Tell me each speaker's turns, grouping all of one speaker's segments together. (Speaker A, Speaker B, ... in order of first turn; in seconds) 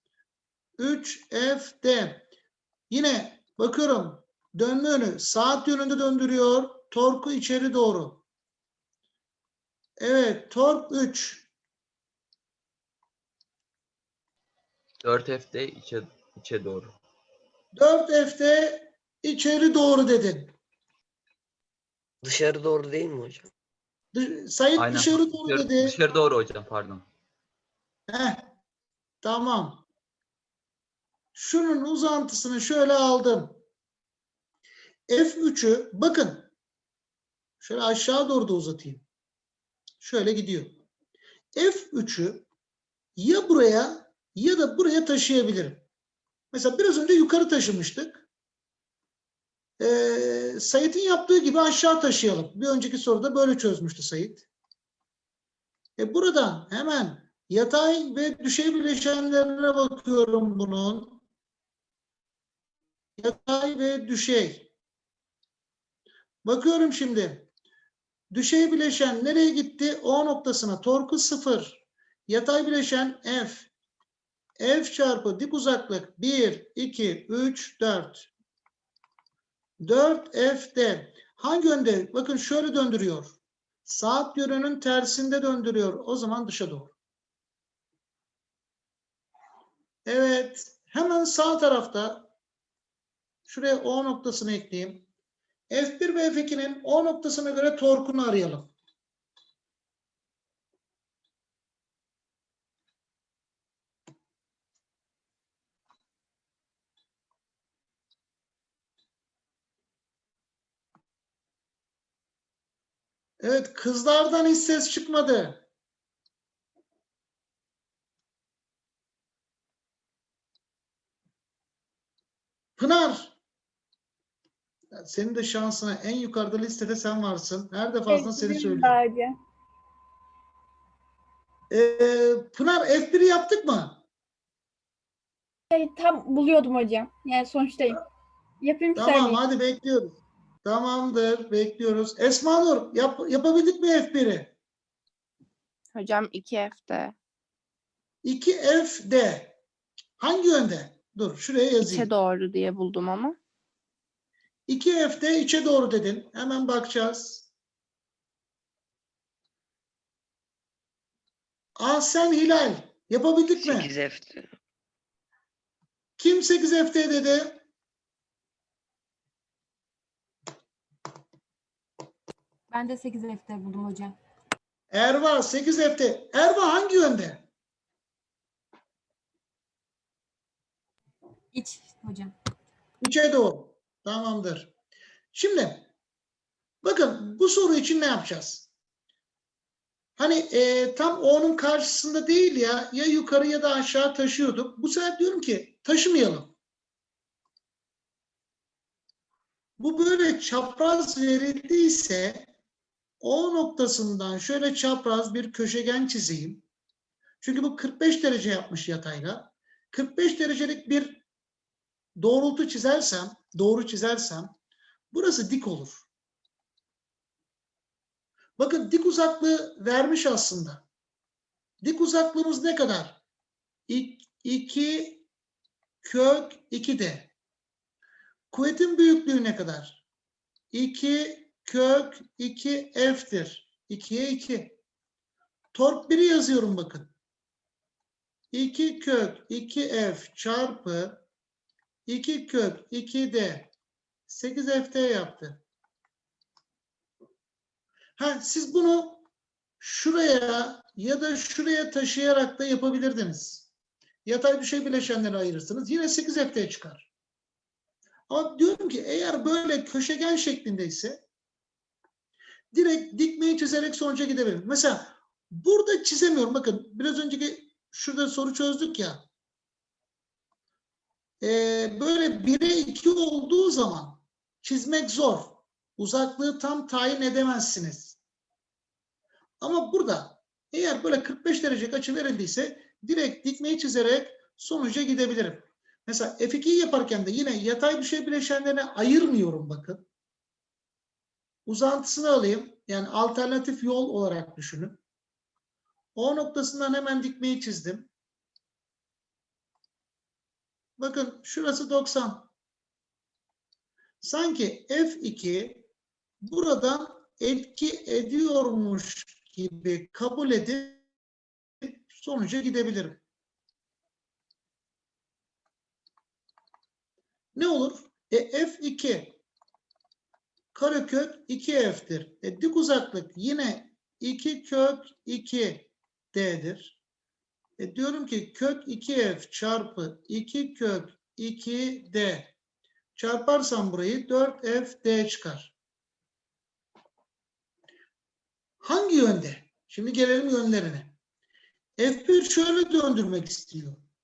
Speaker A: 0.8-2.2, 2.9-8.2, 10.0-11.5, 17.7-20.5, 24.1-26.0, 28.1-28.5, 29.2-29.8, 31.3-33.6, 35.1-36.5, 37.6-39.0, 40.0-40.8, 41.5-42.4, 43.1-45.8, 46.5-48.2, 49.8-54.5, 56.0-61.2, 63.2-64.7, 66.4-67.5, 68.3-73.7, 74.6-78.3, 79.8-86.9, 90.0-92.3, 93.5-95.0, 95.7-98.7, 113.4-115.6, 122.8-123.3, 124.9-129.0, 131.7-134.0, 138.9-144.5, 148.2-149.5, 150.2-152.1, 154.7-157.5, 161.8-163.9, 166.2-167.6, 174.9-177.4, 183.0-184.7, 185.3-185.9, 186.8-188.7, 190.2-196.5, 199.8-202.5, 203.2-206.6, 207.4-211.2, 212.2-214.5, 215.1-216.1, 218.6-220.8, 221.8-223.2, 223.9-225.2, 226.0-227.3, 228.5-230.0, 230.7-234.8, 235.7-237.1, 238.5-241.2, 242.1-243.7, 244.3-245.6, 248.2-249.2, 249.8-253.7, 254.2-257.1, 258.3-261.2, 262.7-269.2, 271.4-278.2, 279.6-290.0, 291.6-295.0, 296.1-298.1, 301.0-302.5, 304.2-305.9, 306.4-311.0, 311.8-313.2, 317.5-319.4, 320.7-327.0, 327.8-332.5, 333.1-335.7, 338.8-341.1, 342.0-344.0
Speaker B: 15.0-17.0, 24.8-27.0
Speaker C: 22.2-23.5, 163.5-164.5
Speaker D: 128.1-129.4, 135.7-138.0, 138.6-139.4
Speaker E: 145.9-147.1, 151.8-153.4
Speaker F: 172.7-174.1, 181.5-182.3